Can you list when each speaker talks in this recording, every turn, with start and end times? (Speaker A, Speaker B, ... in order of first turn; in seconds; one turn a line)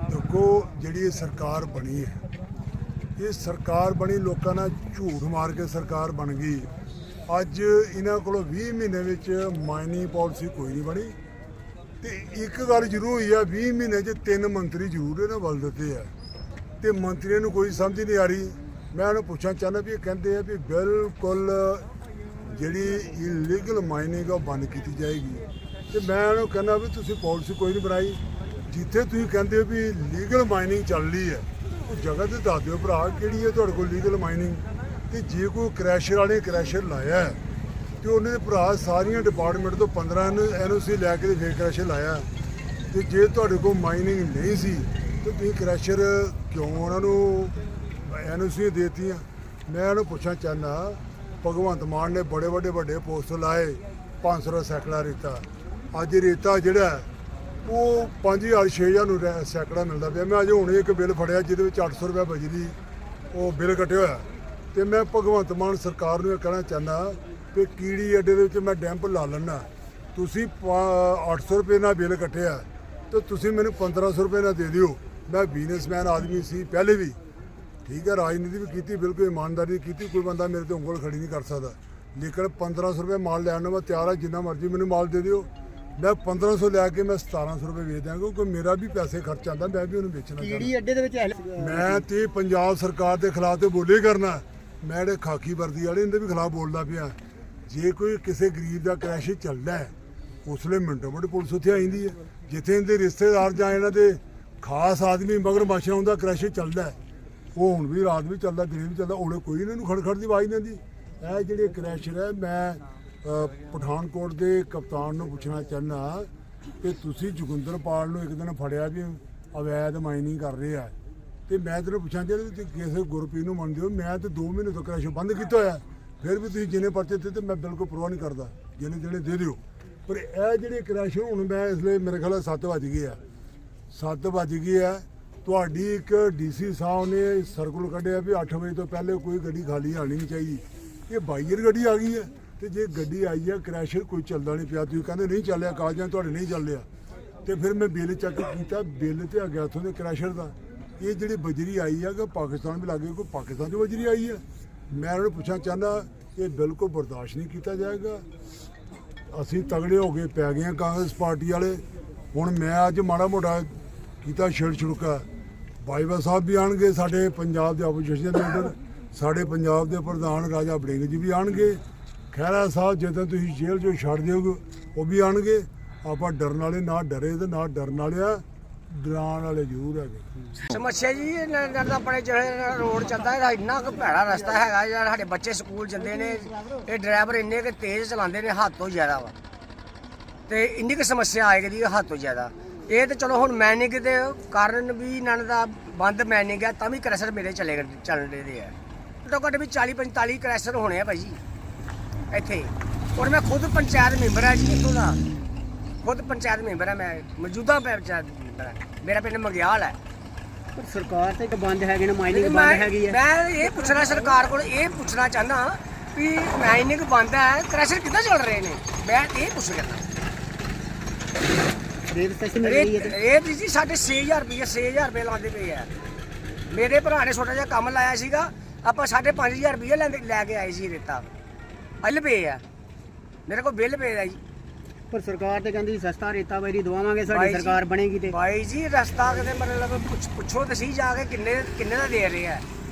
Speaker A: 0.1-2.2
Speaker A: 3.2-6.7
Speaker A: 7.3-11.2
Speaker A: 12.0-16.1
Speaker A: 16.8-21.9
Speaker A: 22.4-37.4
Speaker A: 38.0-42.3
Speaker A: 42.9-57.1
Speaker A: 57.6-62.8
Speaker A: 63.3-77.2
Speaker A: 77.8-90.7
Speaker B: 90.4-92.0
Speaker A: 91.6-97.2
Speaker A: 97.7-99.9
Speaker A: 100.4-107.0
Speaker A: 107.5-116.3
Speaker A: 116.8-120.9
Speaker A: 121.5-133.2
Speaker A: 133.9-146.8
Speaker A: 147.4-158.2
Speaker A: 159.3-165.2
Speaker A: 165.8-171.8
Speaker A: 172.3-180.3
Speaker C: 180.7-189.3
Speaker C: 190.5-201.4
Speaker C: 202.3-205.2
Speaker C: 206.0-210.0
Speaker B: 210.8-213.2
Speaker C: 212.3-220.1
Speaker B: 222.1-223.2
Speaker C: 222.6-225.9
Speaker C: 226.7-231.2
Speaker C: 232.0-232.6
Speaker C: 233.5-234.4
Speaker B: 235.1-238.3
Speaker C: 237.3-242.6